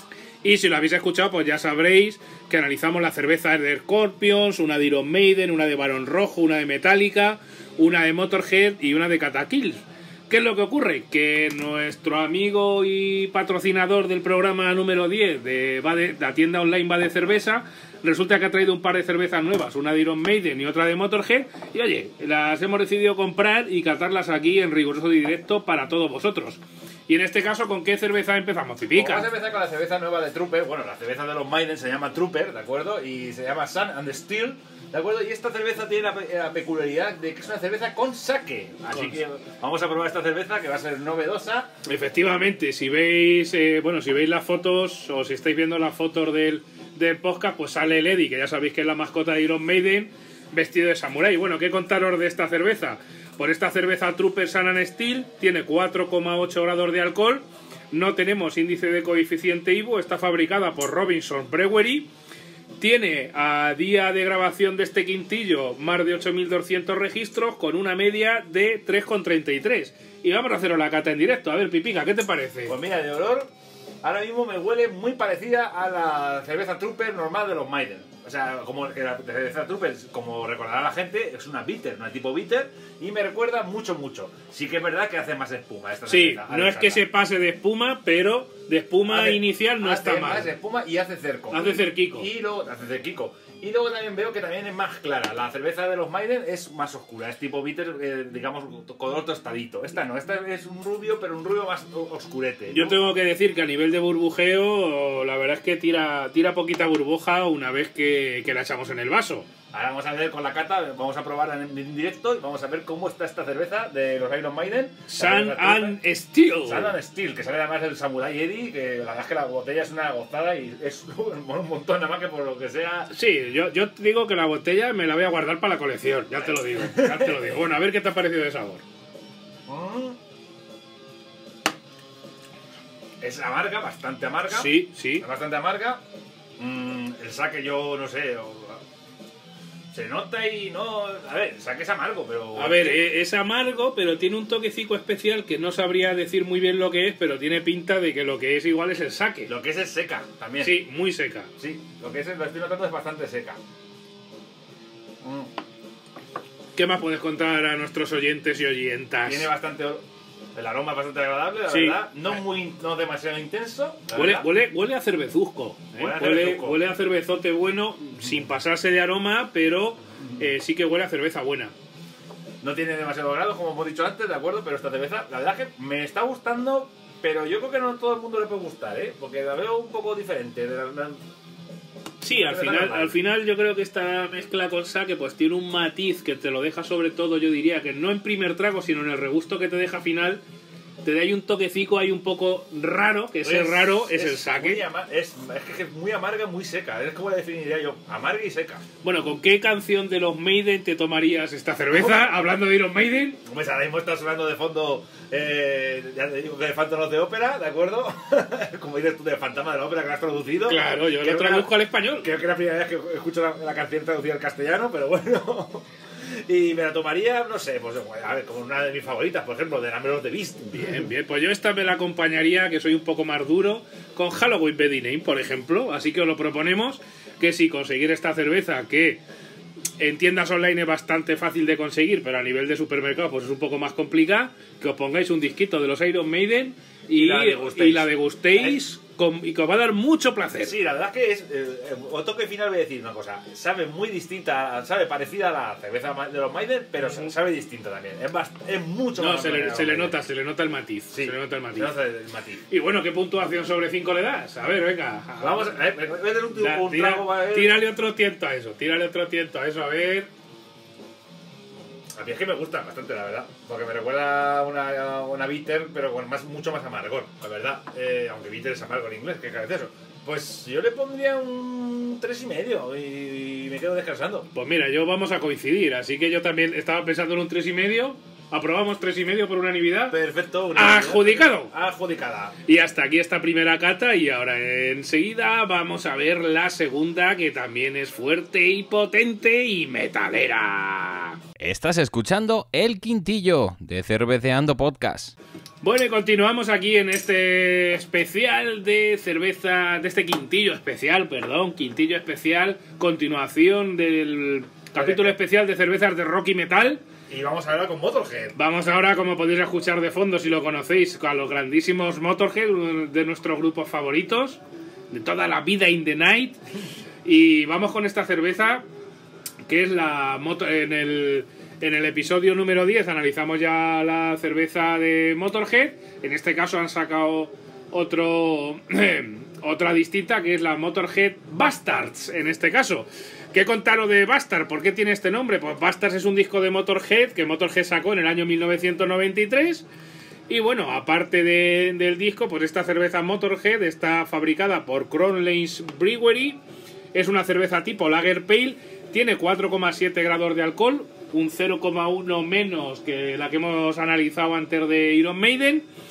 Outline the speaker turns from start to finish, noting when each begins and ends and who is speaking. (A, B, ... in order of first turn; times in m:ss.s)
0:00.4-0:29.3 A
0:29.0-0:41.7 B
0:38.9-0:39.2 A
0:41.8-1:02.1 A
1:02.8-1:12.8 A
1:12.7-1:13.5 B
1:14.0-1:27.0 B
1:26.1-1:30.5 A
1:29.0-1:43.0 B
1:31.5-1:32.3 A
1:42.7-1:49.5 A
1:49.7-1:56.0 B
1:55.1-1:57.0 A
1:56.6-2:03.1 B
2:03.1-2:08.8 A
2:06.3-2:07.4 B
2:09.7-2:10.2 B
2:13.2-2:16.0 B
2:14.5-2:15.3 A
2:16.6-2:18.8 B
2:19.9-2:23.0 B
2:22.6-2:29.5 A
2:29.5-2:30.8 B
2:30.6-2:31.5 A
2:31.6-2:33.6 B
2:35.2-2:35.5 B
2:36.8-2:39.5 A
2:39.2-2:40.0 B
2:40.6-2:44.5 B
2:41.7-2:42.4 A
2:44.1-2:51.7 A
2:46.0-2:46.8 B
2:52.6-3:01.2 B
3:02.2-3:10.4 A
3:02.3-3:03.2 B
3:11.0-3:14.8 A
3:13.4-3:18.8 B
3:19.0-3:23.4 A
3:23.4-3:35.8 B
3:30.6-3:32.3 A
3:36.5-3:41.1 B
3:40.8-3:49.2 A
3:50.0-4:00.8 A
3:57.1-3:58.8 B
4:00.6-4:10.2 B
4:07.0-4:07.3 A
4:09.2-4:12.0 A
4:11.1-4:12.6 B
4:12.7-4:15.8 A
4:15.4-4:17.8 B
4:16.5-4:20.3 A
4:22.2-4:34.5 B
4:34.5-4:40.2 A
4:40.1-4:42.6 B
4:40.7-4:41.7 A
4:42.7-4:51.4 A
4:51.6-4:55.3 C
4:55.8-5:07.0 A
5:05.0-5:05.4 B
5:07.3-5:08.6 B
5:08.6-5:14.6 A
5:15.1-5:16.6 A
5:17.2-5:18.8 A
5:19.7-5:39.9 A
5:40.5-5:46.6 A
5:47.1-5:55.9 A